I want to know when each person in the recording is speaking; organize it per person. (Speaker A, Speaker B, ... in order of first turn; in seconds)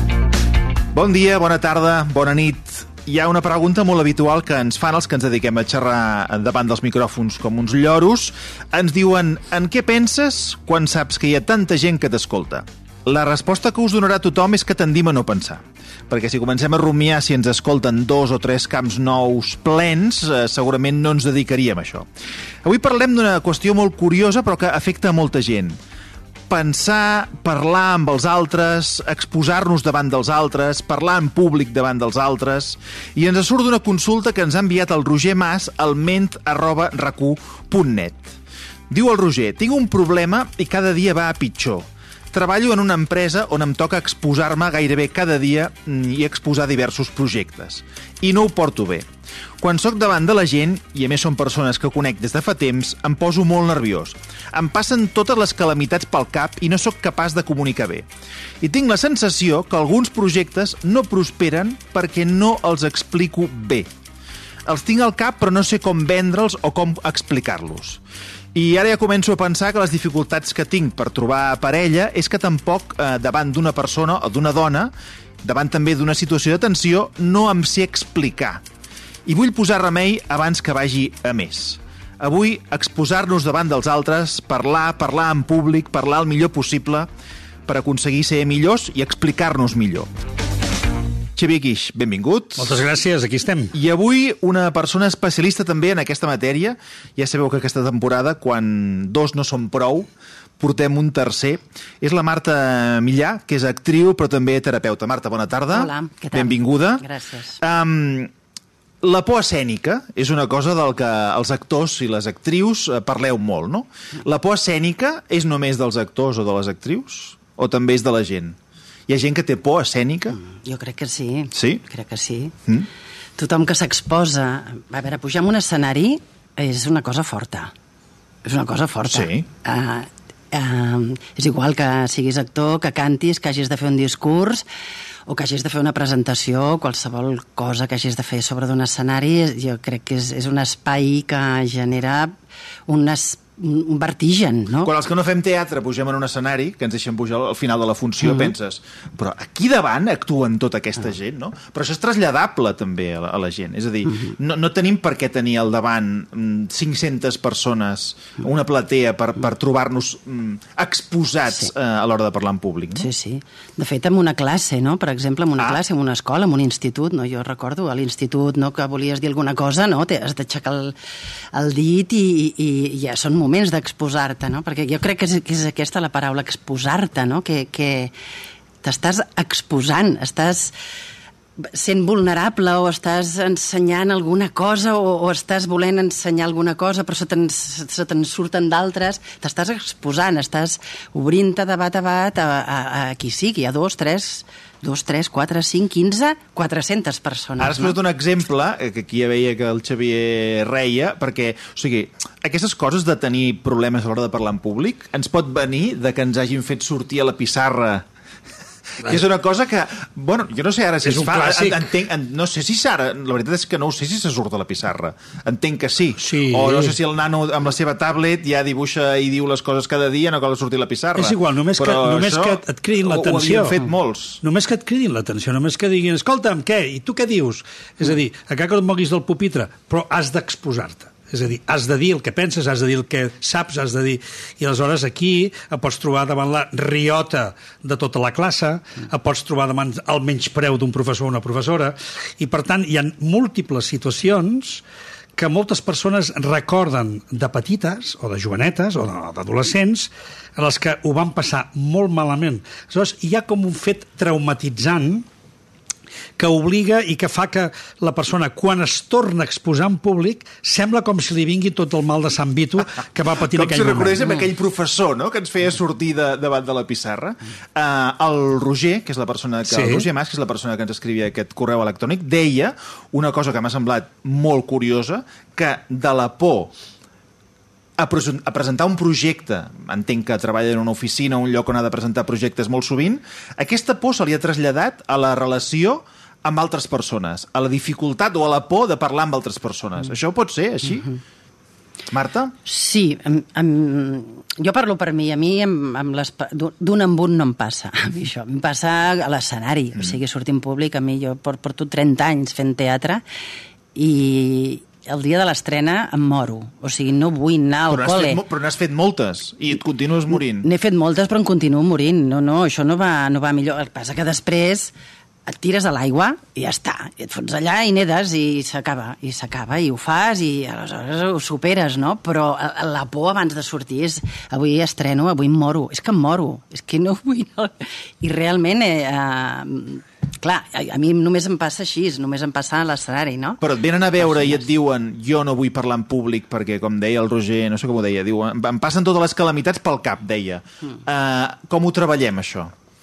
Speaker A: 0.9-22.1, 22.6-25.8, 26.5-38.4, 38.9-49.1, 49.6-58.0, 58.6-63.9, 64.7-68.0, 68.5-74.9, 75.4-78.6, 79.2-87.1, 87.7-90.1, 91.3-92.8, 93.7-107.0, 107.6-108.3, 109.0-118.6, 119.1-120.4, 121.5-121.8, 129.1-129.5, 144.8-163.1, 197.6-208.1, 209.0-224.4, 263.5-276.7, 278.0-291.1, 292.1-292.5, 307.9-310.7, 333.6-342.7
Speaker B: 92.6-93.7, 211.0-211.9, 216.2-217.0, 221.2-223.8, 224.4-244.8, 245.4-255.2, 256.4-264.3, 269.7-270.1
Speaker C: 105.7-107.6, 120.4-122.5, 123.4-127.7, 128.4-134.7, 135.3-142.3, 142.9-144.9, 148.2-148.5, 163.0-170.9, 171.5-178.1, 178.8-180.7, 181.6-198.0, 292.6-303.2, 303.9-308.4, 310.5-314.9, 315.5-333.6, 334.2-334.6